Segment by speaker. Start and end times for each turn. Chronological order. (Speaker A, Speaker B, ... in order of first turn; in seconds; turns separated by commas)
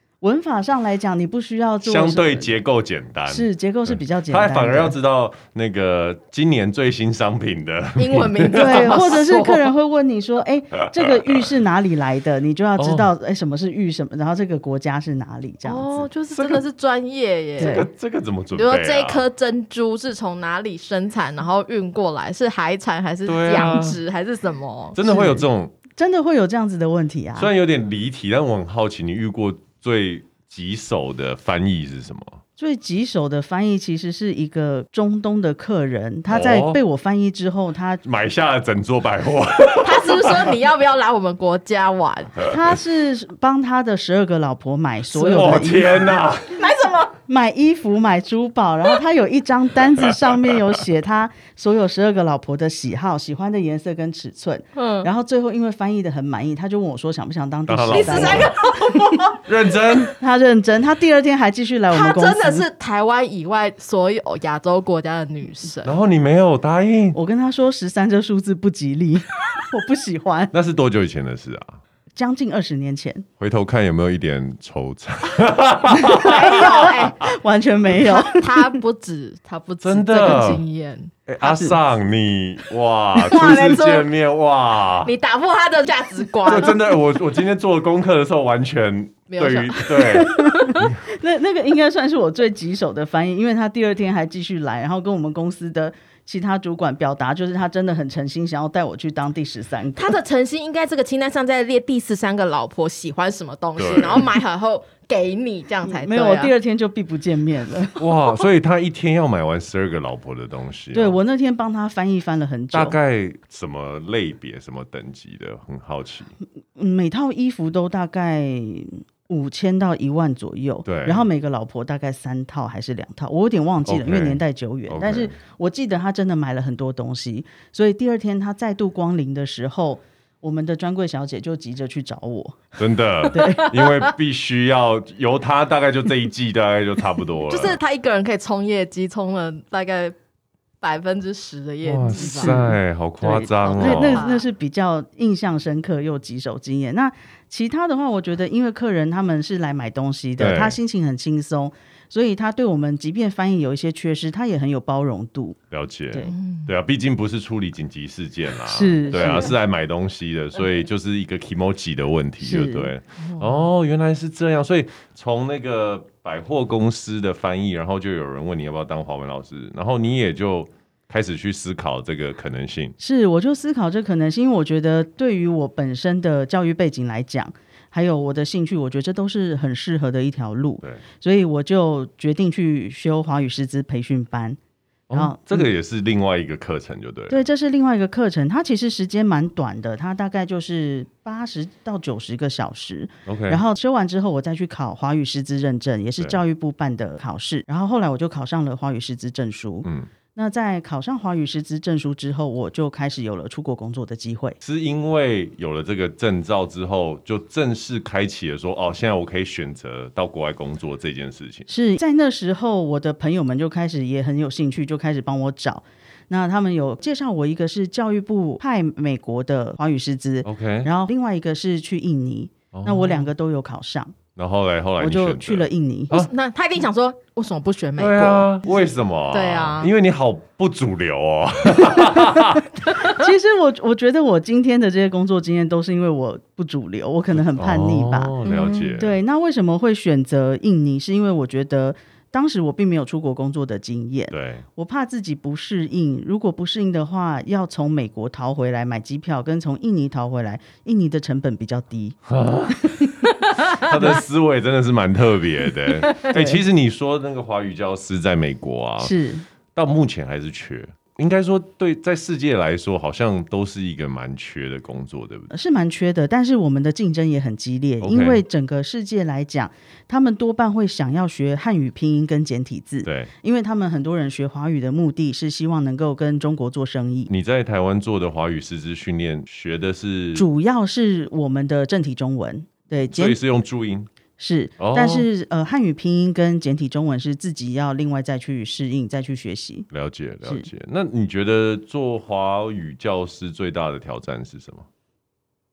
Speaker A: 0.2-2.5, Speaker B: 1.8-9.0, Speaker A: 3.3-5.0, Speaker C: 8.0-9.7, Speaker A: 8.5-16.1, Speaker B: 10.9-11.6, Speaker B: 12.8-13.1, Speaker C: 15.6-17.9, Speaker B: 16.3-16.6, Speaker B: 17.6-19.2, Speaker A: 17.6-17.9, Speaker C: 18.5-25.0, Speaker B: 23.3-24.0, Speaker B: 24.9-25.8, Speaker A: 25.0-25.5, Speaker A: 26.0-27.5, Speaker B: 27.4-32.4, Speaker A: 32.6-38.0, Speaker B: 36.3-36.8, Speaker B: 38.0-40.6, Speaker C: 39.8-42.5, Speaker A: 42.5-46.1, Speaker B: 45.1-46.7, Speaker C: 46.5-47.1, Speaker A: 47.3-59.2, Speaker C: 54.8-55.1, Speaker B: 57.7-58.5, Speaker C: 57.9-59.4, Speaker B: 59.4-60.1, Speaker A: 60.2-62.7, Speaker C: 61.9-65.9, Speaker B: 65.8-67.2, Speaker A: 67.1-70.5, Speaker B: 70.5-71.8, Speaker A: 72.2-73.3, Speaker B: 73.4-76.9, Speaker A: 75.9-78.8, Speaker C: 76.2-77.2, Speaker C: 77.9-81.1, Speaker B: 79.8-80.6, Speaker B: 81.3-85.1, Speaker A: 81.4-81.8, Speaker C: 83.2-84.1, Speaker C: 85.0-86.9, Speaker B: 86.4-91.0, Speaker C: 89.3-90.8, Speaker A: 90.1-100.2, Speaker C: 100.0-106.5, Speaker B: 103.8-104.3, Speaker A: 105.9-108.0, Speaker B: 108.0-111.2, Speaker A: 110.9-113.0, Speaker B: 112.7-116.3, Speaker A: 116.8-132.6, Speaker B: 120.8-121.3, Speaker B: 123.8-125.4, Speaker B: 132.8-137.8, Speaker A: 133.3-133.7, Speaker C: 133.4-134.1, Speaker C: 137.5-140.2, Speaker C: 140.8-142.7, Speaker B: 141.8-144.2, Speaker A: 142.1-155.6, Speaker C: 143.4-144.5, Speaker B: 150.4-150.8, Speaker B: 155.7-173.0, Speaker C: 156.3-156.7, Speaker A: 158.7-159.5, Speaker C: 159.2-159.5, Speaker A: 162.4-162.9, Speaker C: 163.2-163.7, Speaker A: 173.0-184.6, Speaker B: 185.1-187.4, Speaker A: 185.1-185.7, Speaker A: 187.3-204.6, Speaker B: 193.3-193.6, Speaker B: 199.8-200.1, Speaker B: 204.6-211.7, Speaker A: 211.7-224.2, Speaker B: 220.4-220.9, Speaker B: 222.7-223.3, Speaker B: 224.4-226.3, Speaker A: 225.0-226.2, Speaker C: 226.1-228.8, Speaker B: 228.0-232.7, Speaker C: 229.3-229.9, Speaker A: 231.9-238.3, Speaker B: 237.5-239.2, Speaker C: 238.4-239.0, Speaker A: 239.0-252.2, Speaker B: 244.3-244.7, Speaker B: 252.3-259.1, Speaker A: 252.8-253.1, Speaker A: 253.9-254.2, Speaker A: 256.3-256.6, Speaker A: 259.0-259.5, Speaker B: 259.8-265.5, Speaker A: 265.5-277.3, Speaker B: 268.0-268.4, Speaker B: 273.0-273.3, Speaker B: 277.3-280.5, Speaker A: 280.4-283.4, Speaker B: 283.1-284.1, Speaker A: 284.4-289.9, Speaker B: 284.8-285.3, Speaker B: 289.9-294.9